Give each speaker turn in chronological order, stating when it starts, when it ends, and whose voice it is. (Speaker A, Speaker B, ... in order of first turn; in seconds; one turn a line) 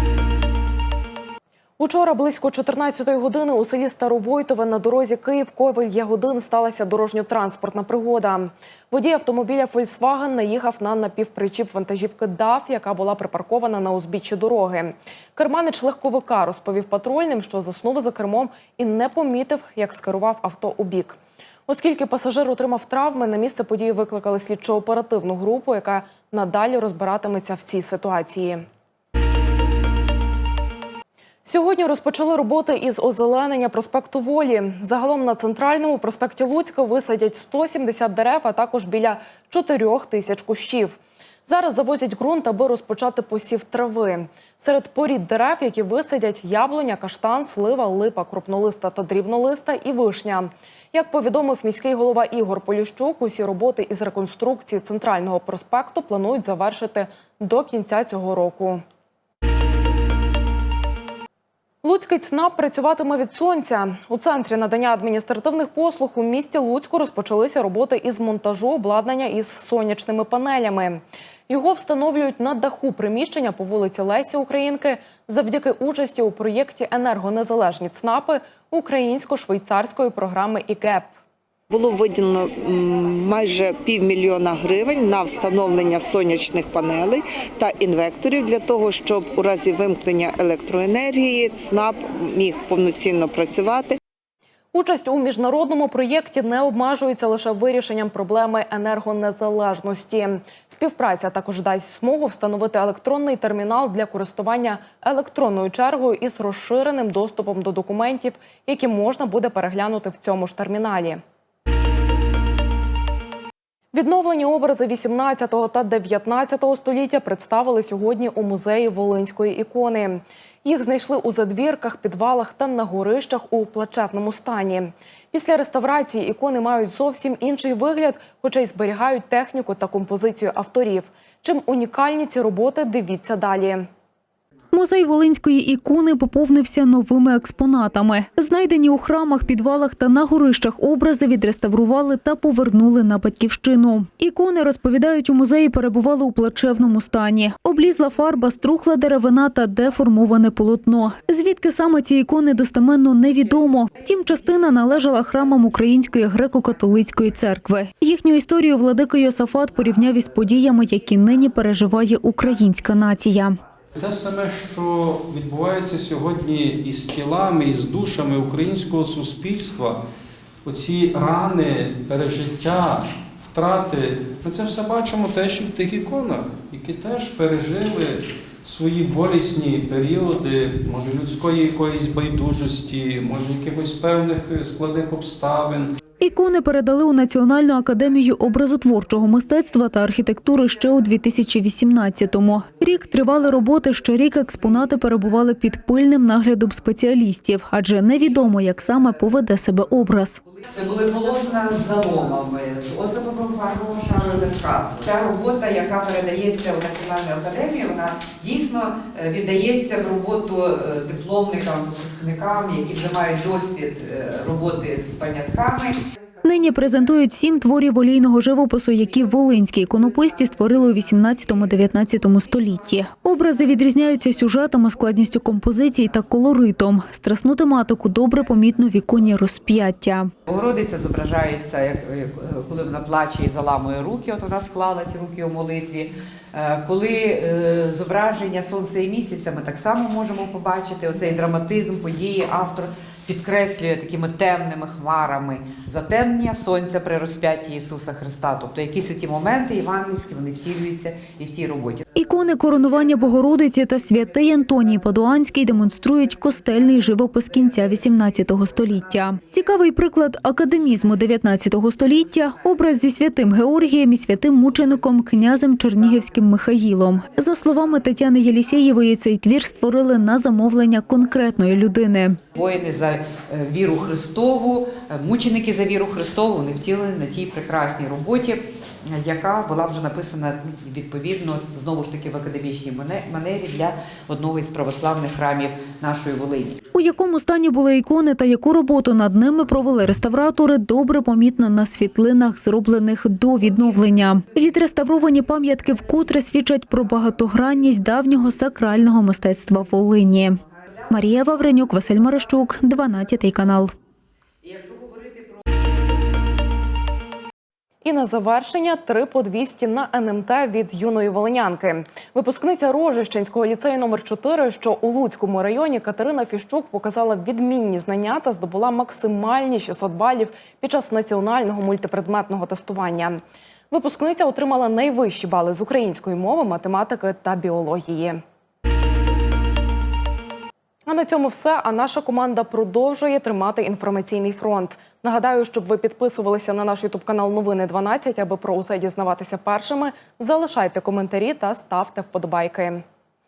Speaker A: 1.8-28.6
Speaker A: 31.4-58.8
Speaker A: 61.8-81.1
Speaker B: 81.7-94.0
Speaker A: 94.7-111.2
Speaker A: 113.9-133.9
Speaker C: 134.7-163.6
Speaker D: 164.0-170.0
Speaker D: 170.7-178.1
Speaker D: 178.7-185.7
Speaker C: 186.2-200.4
Speaker E: 200.7-216.0
Speaker C: 216.4-230.3
Speaker E: 230.5-252.0
Speaker C: 252.2-272.4
Speaker E: 272.6-286.8
Speaker C: 286.9-303.9
Speaker A: 308.0-328.4
Speaker A: 331.1-343.0